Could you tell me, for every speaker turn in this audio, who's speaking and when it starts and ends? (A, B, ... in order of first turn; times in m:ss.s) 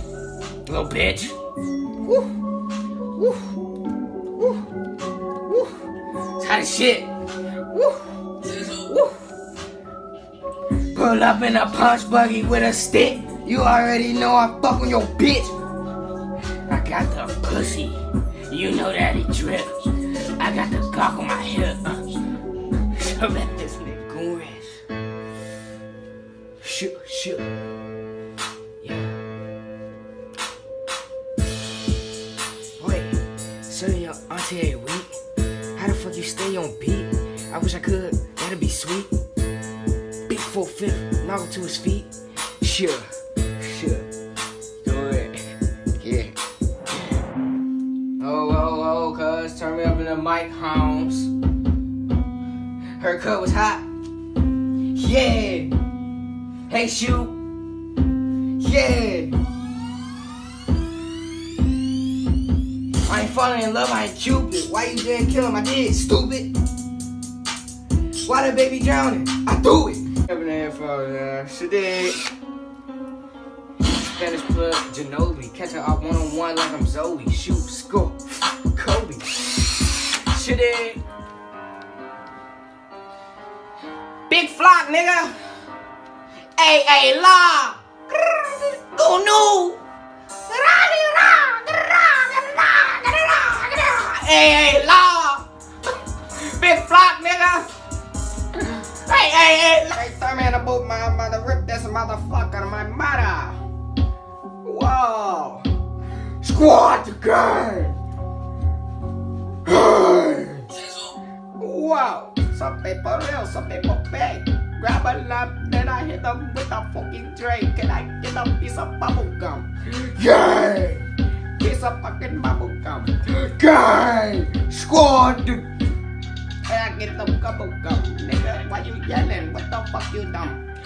0:00.6-0:01.3 A
0:06.4-0:07.1 A
0:07.7-0:09.2 A
0:10.9-0:15.5 A
0:16.7-0:22.0 A
0:22.9-0:24.8 A
0:26.6-0:27.5 A
0:28.8-0:29.1 A
0:32.8-0:35.1 A
0:35.8-0:39.1 A
0:40.3-0:42.1 A
0:42.6-0:43.1 A
0:43.6-0:44.1 A
0:44.8-0:45.4 A
0:46.0-0:46.3 A
0:48.2-0:51.3 A
0:53.0-0:53.8 A
0:54.9-0:55.7 A
0:56.7-0:57.4 A
0:58.6-0:59.4 A
1:03.0-1:06.5 A
1:08.2-1:12.2 A
1:13.9-1:18.2 A
1:18.7-1:19.3 A
1:20.2-1:21.0 A
1:24.3-1:25.4 A
1:26.6-1:29.8 A
1:30.5-1:35.5 A
1:36.4-1:37.7 A
1:38.7-1:43.6 A
1:44.6-1:45.6 A
1:46.4-1:48.0 A
1:49.6-1:50.7 A
1:51.6-2:01.1 A
2:01.6-2:05.7 A
2:06.7-2:10.6 A